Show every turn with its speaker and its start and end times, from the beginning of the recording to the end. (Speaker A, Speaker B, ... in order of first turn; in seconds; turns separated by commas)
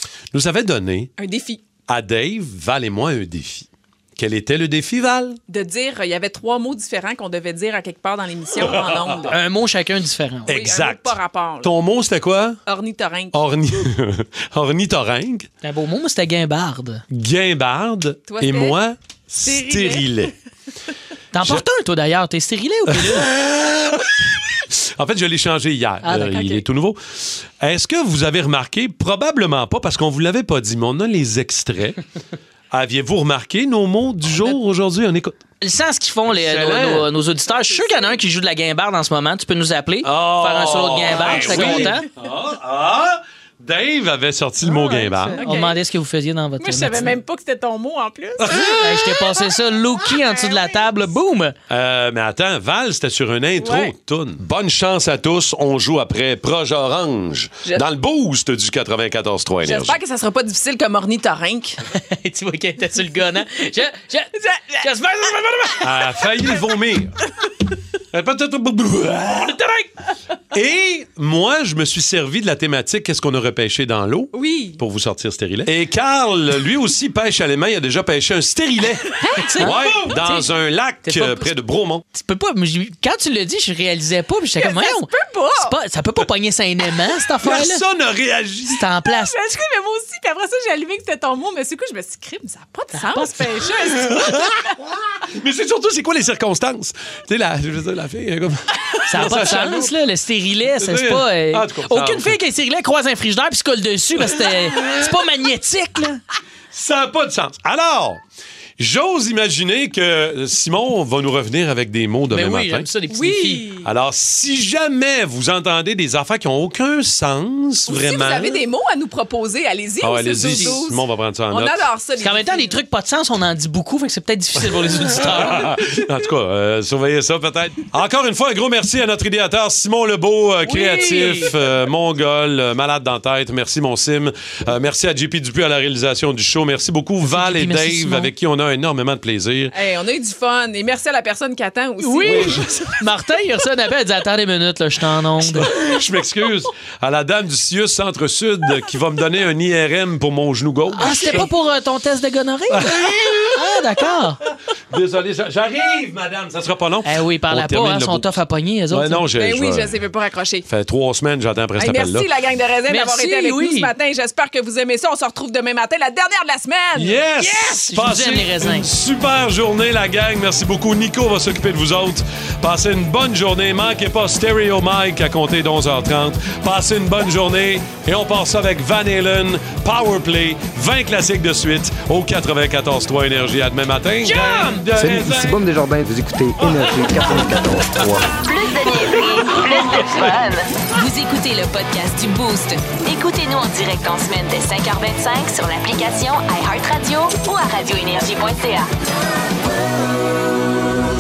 Speaker A: 0.3-1.1, Speaker B: 1.2-1.6, Speaker A: 1.9-5.4, Speaker B: 5.5-9.4, Speaker A: 8.6-9.1, Speaker C: 9.3-10.5, Speaker A: 10.5-12.6, Speaker B: 10.5-11.7, Speaker B: 12.7-13.3, Speaker A: 13.3-15.5, Speaker C: 15.6-17.0, Speaker A: 17.1-20.3, Speaker B: 18.3-18.8, Speaker B: 19.4-20.1, Speaker C: 21.3-23.3, Speaker A: 22.9-32.0, Speaker C: 26.0-26.5, Speaker B: 26.3-26.6, Speaker A: 32.7-35.4, Speaker C: 35.6-42.1, Speaker A: 36.3-37.1, Speaker B: 37.4-38.2, Speaker A: 40.0-45.4, Speaker B: 41.2-42.0, Speaker B: 44.6-45.8, Speaker C: 45.4-47.2, Speaker B: 46.6-49.5, Speaker A: 48.4-48.8, Speaker C: 48.5-51.5, Speaker B: 50.1-50.8, Speaker A: 51.7-60.0, Speaker B: 53.6-53.9, Speaker B: 59.6-61.8, Speaker C: 62.1-65.9, Speaker B: 64.4-64.8, Speaker A: 65.8-67.1, Speaker A: 68.1-69.6, Speaker C: 69.4-69.9, Speaker A: 70.5-82.0, Speaker B: 74.3-74.8, Speaker B: 79.2-80.4, Speaker C: 79.4-79.8, Speaker C: 81.1-81.5, Speaker C: 82.1-87.8, Speaker B: 84.6-85.7, Speaker A: 87.4-88.8, Speaker C: 88.7-89.3, Speaker B: 89.3-94.5, Speaker C: 92.9-93.4, Speaker A: 94.0-94.6, Speaker A: 95.3-99.9, Speaker C: 99.1-106.2, Speaker A: 100.8-102.4, Speaker A: 104.4-105.1, Speaker A: 106.7-108.2, Speaker A: 108.8-112.9, Speaker C: 112.3-113.7, Speaker B: 113.1-113.9, Speaker A: 113.8-118.6, Speaker B: 117.9-122.8, Speaker A: 120.0-121.9, Speaker C: 120.5-120.8, Speaker C: 122.2-125.7, Speaker A: 124.6-139.7, Speaker B: 130.7-131.5, Speaker C: 130.7-131.3, Speaker C: 137.3-138.3, Speaker B: 139.7-142.9, Speaker C: 142.0-145.7, Speaker A: 142.2-142.9, Speaker A: 145.4-151.4, Speaker C: 151.0-152.9, Speaker B: 151.0-151.5, Speaker A: 152.7-153.6, Speaker C: 153.5-154.4, Speaker A: 154.9-158.4, Speaker C: 157.1-159.2, Speaker A: 158.9-160.0, Speaker B: 159.4-160.7, Speaker A: 160.7-162.3, Speaker B: 161.8-167.2, Speaker C: 162.9-163.9, Speaker A: 166.9-185.6, Speaker C: 167.4-168.9, Speaker C: 184.2-184.8, Speaker D: 184.9-188.4, Speaker A: 186.6-187.6, Speaker E: 188.4-198.9